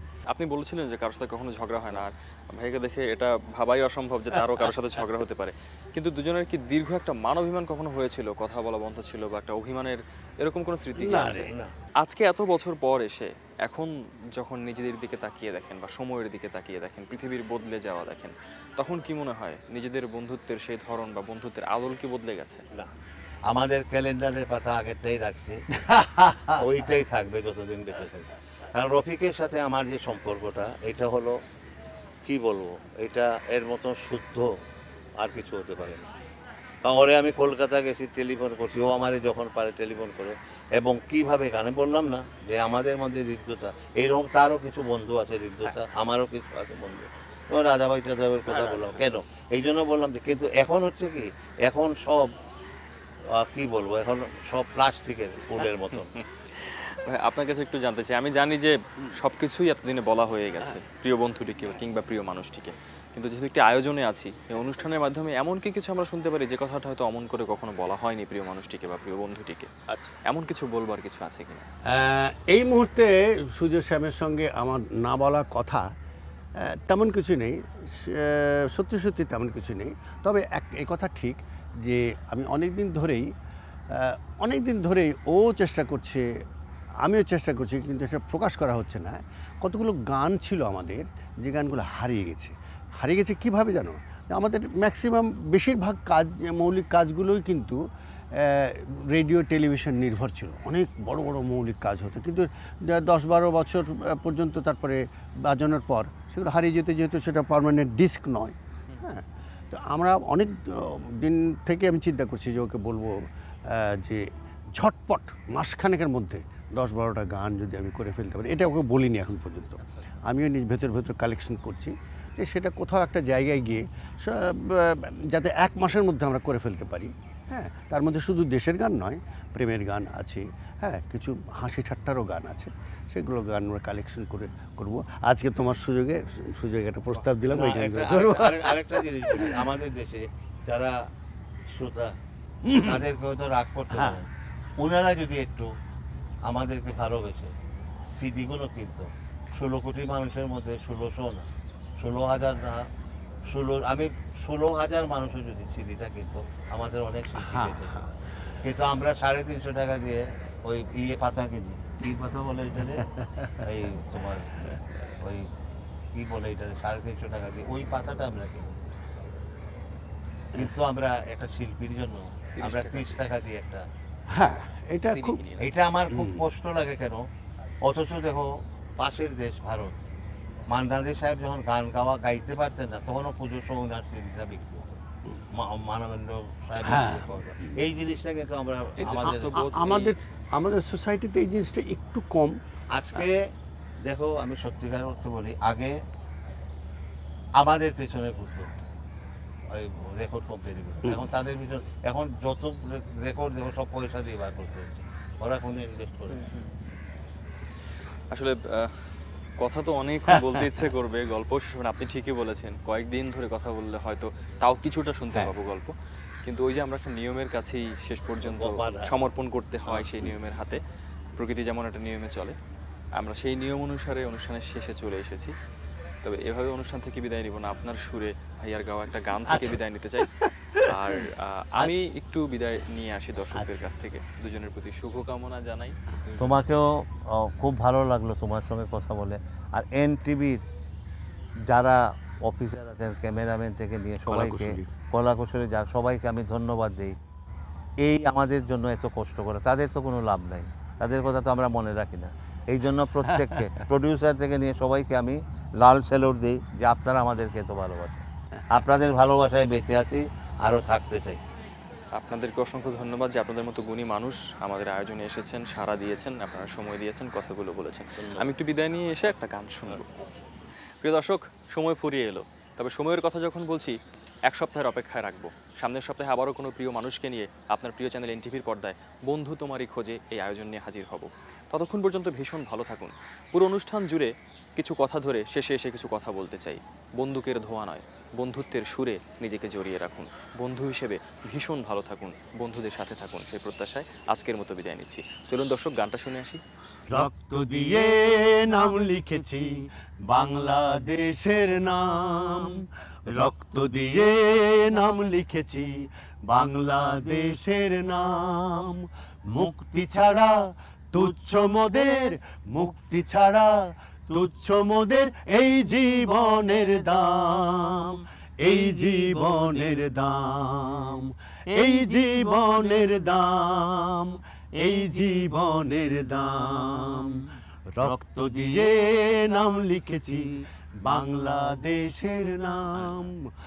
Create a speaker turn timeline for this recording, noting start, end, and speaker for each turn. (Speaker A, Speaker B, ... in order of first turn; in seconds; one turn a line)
Speaker A: 0.3-22.6
Speaker B: 10.9-11.5
Speaker C: 11.4-11.7
Speaker C: 23.5-25.6
Speaker B: 25.8-26.6
Speaker C: 26.6-31.4
Speaker C: 32.2-34.5
Speaker C: 35.2-36.1
Speaker C: 36.8-52.3
Speaker B: 48.6-49.0
Speaker C: 53.3-56.1
Speaker A: 56.2-71.7
Speaker B: 71.9-75.8
Speaker B: 76.6-83.3
Speaker B: 83.9-86.3
Speaker B: 87.0-97.8
Speaker B: 98.3-139.6
Speaker A: 119.8-120.2
Speaker C: 137.1-141.0
Speaker C: 141.7-142.1
Speaker B: 142.6-143.0
Speaker C: 142.8-144.3
Speaker B: 143.9-144.2
Speaker C: 144.8-145.7
Speaker C: 146.4-152.9
Speaker C: 153.4-164.5
Speaker B: 157.4-158.0
Speaker B: 163.0-163.6
Speaker C: 165.2-165.5
Speaker C: 166.1-168.8
Speaker C: 170.5-173.8
Speaker A: 172.5-173.2
Speaker B: 174.3-175.4
Speaker A: 175.1-175.7
Speaker C: 175.6-177.2
Speaker B: 176.1-176.4
Speaker C: 177.8-180.0
Speaker C: 180.7-189.6
Speaker B: 186.8-187.8
Speaker A: 189.0-190.1
Speaker B: 189.2-192.6
Speaker C: 192.9-193.4
Speaker C: 194.1-195.9
Speaker C: 197.6-198.7
Speaker C: 199.7-206.5
Speaker A: 206.3-206.7
Speaker A: 208.3-220.8
Speaker C: 218.4-219.1
Speaker B: 219.9-220.3
Speaker A: 221.3-222.6
Speaker A: 223.2-225.5
Speaker A: 226.2-236.0
Speaker B: 229.5-229.8
Speaker B: 230.4-231.2
Speaker C: 236.4-240.6
Speaker C: 241.7-247.2
Speaker B: 244.3-244.9
Speaker C: 248.0-261.4
Speaker B: 253.4-253.8
Speaker A: 262.1-270.2
Speaker C: 268.1-268.5
Speaker C: 269.9-270.3
Speaker A: 271.0-296.6
Speaker B: 297.1-333.4